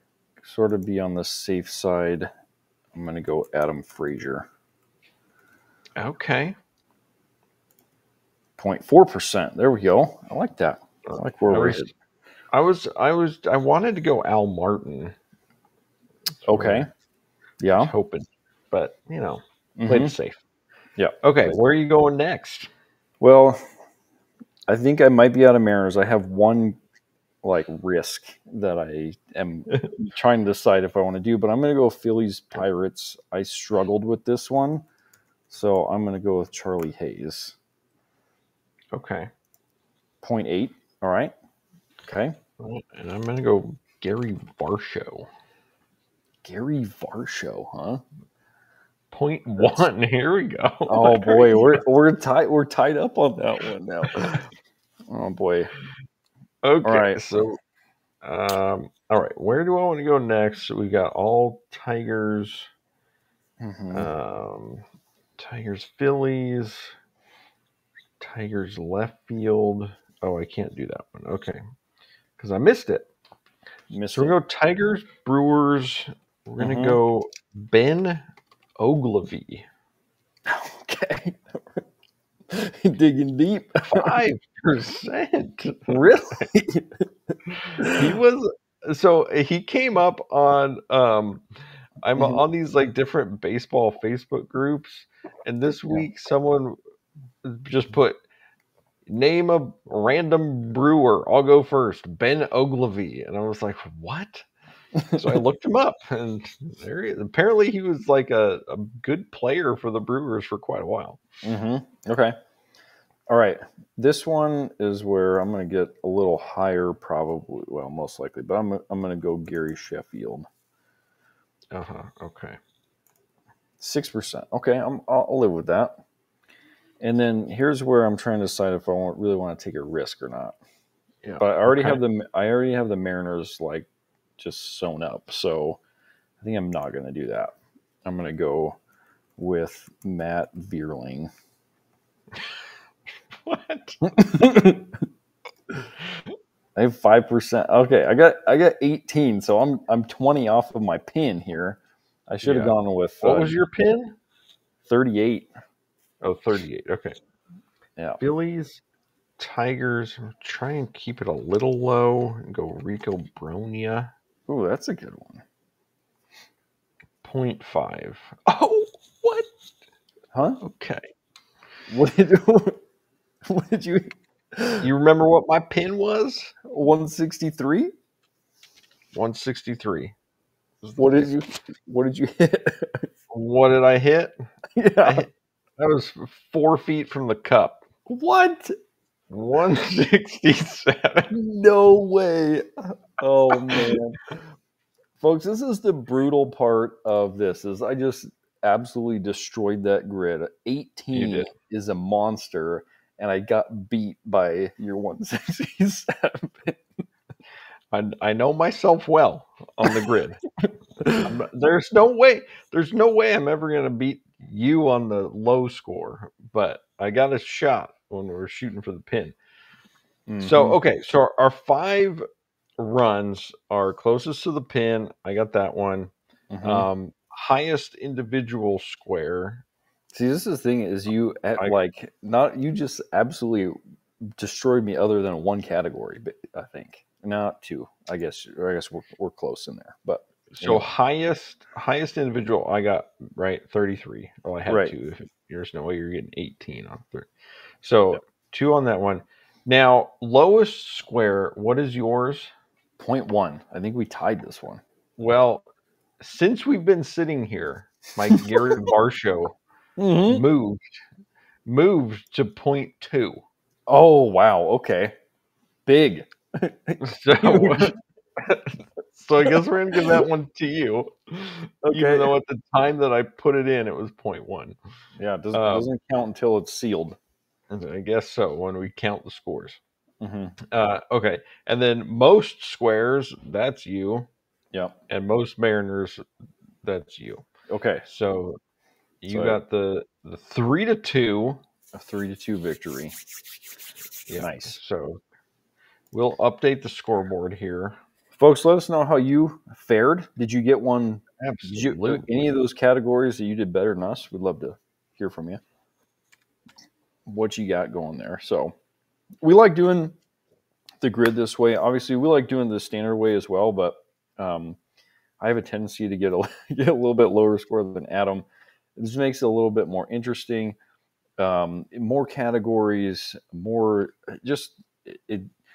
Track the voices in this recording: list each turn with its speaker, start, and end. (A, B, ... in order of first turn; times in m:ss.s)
0:00.4-0:02.3 A
0:02.9-0:04.5 A
0:06.0-0:06.6 B
0:08.6-0:11.9 A
0:11.1-0:11.9 B
0:12.5-0:15.1 B
0:16.4-0:16.9 B
0:16.5-0:16.9 A
0:17.6-0:17.9 A
0:17.7-0:20.4 B
0:19.8-0:20.1 A
0:21.0-0:21.6 A
0:21.2-0:22.7 B
0:23.2-0:23.6 A
0:24.7-0:26.8 A
0:27.4-0:34.8 A
0:35.5-0:37.6 A
0:38.9-0:39.3 B
0:40.2-0:41.3 A
0:42.0-0:42.3 A
0:42.6-0:45.3 B
0:46.4-0:48.0 A
0:49.1-0:51.8 B
0:49.6-0:49.8 A
0:50.9-0:54.5 A
0:55.1-0:55.7 A
0:56.6-0:57.6 B
0:56.8-0:57.5 A
0:58.2-1:02.7 B
1:03.6-1:04.1 A
1:03.9-1:04.8 B
1:05.4-1:06.9 B
1:08.2-1:11.6 B
1:12.4-1:13.1 B
1:13.9-1:14.4 A
1:14.1-1:18.2 B
1:16.6-1:17.0 A
1:18.8-1:19.6 B
1:20.5-1:21.8 A
1:22.5-1:24.2 A
1:23.8-1:26.5 B
1:25.9-1:27.0 A
1:27.5-1:31.4 B
1:27.8-1:28.1 A
1:32.0-1:36.8 B
1:37.4-1:38.2 B
1:39.1-1:44.5 B
1:45.0-1:45.3 A
1:45.1-1:51.2 B
1:51.4-1:52.3 A
1:53.3-2:00.5 A
2:01.7-2:02.6 B
2:03.8-2:06.0 A
2:07.0-2:10.6 A
2:11.2-2:12.0 B
2:11.4-2:13.9 A
2:14.4-2:15.8 A
2:16.4-2:17.5 A
2:18.0-2:18.8 A
2:19.4-2:21.3 A
2:23.3-2:24.2 B
2:24.1-2:24.9 A
2:26.8-2:33.6 A
2:32.4-2:34.2 B
2:34.8-2:35.5 A
2:36.2-2:37.2 B
2:38.2-2:38.8 B
2:39.4-2:44.1 B
2:44.5-2:45.4 A
2:47.2-2:49.5 B
2:50.3-2:50.6 A
2:50.6-2:51.1 B
2:51.9-2:52.8 A
2:53.5-2:54.9 A
2:54.8-2:56.5 B
2:56.7-2:57.9 A
2:59.1-3:00.1 B
3:00.8-3:01.2 B
3:00.9-3:03.0 A
3:03.3-3:04.4 B
3:04.7-3:05.2 A
3:05.0-3:07.8 B
3:08.1-3:08.7 A
3:09.3-3:11.3 B
3:11.3-3:14.2 A
3:13.5-3:14.0 B
3:15.2-3:26.8 A
3:21.1-3:21.5 B
3:27.9-3:30.4 B
3:31.2-3:39.4 B
3:40.3-3:40.8 A
3:40.4-3:42.2 B
3:42.8-3:46.1 B
3:46.5-3:46.9 A
3:46.6-3:49.6 B
3:50.1-3:53.8 A
3:54.4-4:00.8 A
4:00.5-4:07.3 B
4:04.7-4:04.9 A
4:07.8-4:12.5 B
4:13.0-4:14.8 A
4:15.2-4:15.6 B
4:16.2-4:19.6 B
4:20.0-4:20.4 A
4:20.2-4:21.0 B
4:21.6-4:23.4 B
4:23.9-4:25.1 A
4:25.8-4:28.0 A
4:27.0-4:34.8 B
4:29.4-4:30.2 A
4:31.8-4:32.3 A
4:35.2-4:37.2 A
4:35.5-4:35.9 B
4:37.7-4:39.8 B
4:40.2-4:40.6 A
4:40.7-4:44.3 B
4:45.1-4:46.2 B
4:46.8-4:47.4 B
4:47.7-4:48.0 A
4:48.0-4:48.6 B
4:49.2-4:51.6 B
4:49.3-4:49.6 A
4:51.9-4:53.2 A
4:54.3-4:55.2 B
4:54.4-4:54.8 A
4:56.1-4:58.0 B
4:58.3-5:05.6 A
5:01.4-5:02.5 B
5:07.3-5:08.7 A
5:09.4-5:10.1 A
5:11.0-5:14.8 A
5:15.4-5:18.4 A
5:19.0-5:20.8 A
5:21.4-5:25.5 A